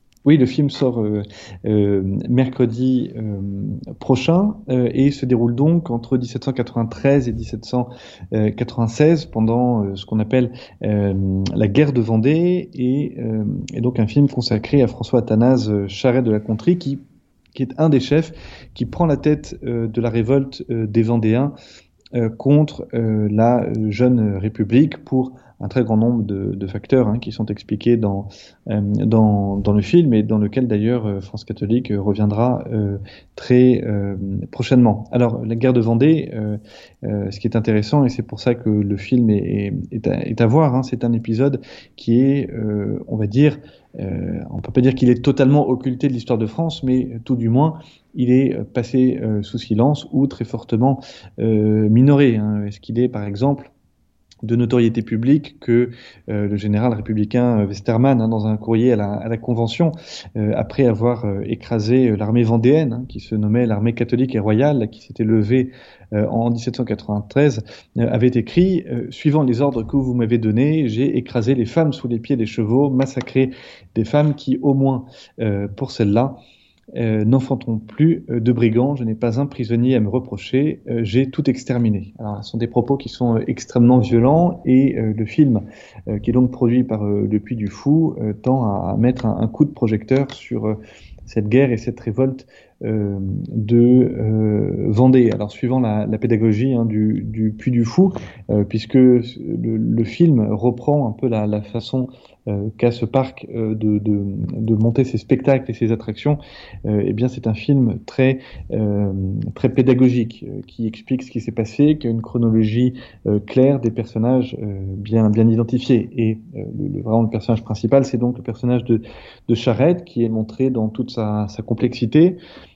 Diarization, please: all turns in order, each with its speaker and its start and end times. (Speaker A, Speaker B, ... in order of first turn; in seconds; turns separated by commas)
Speaker A: 0.2-17.0, Speaker A: 17.5-21.5, Speaker A: 22.1-53.7, Speaker A: 54.4-76.4, Speaker A: 76.9-122.4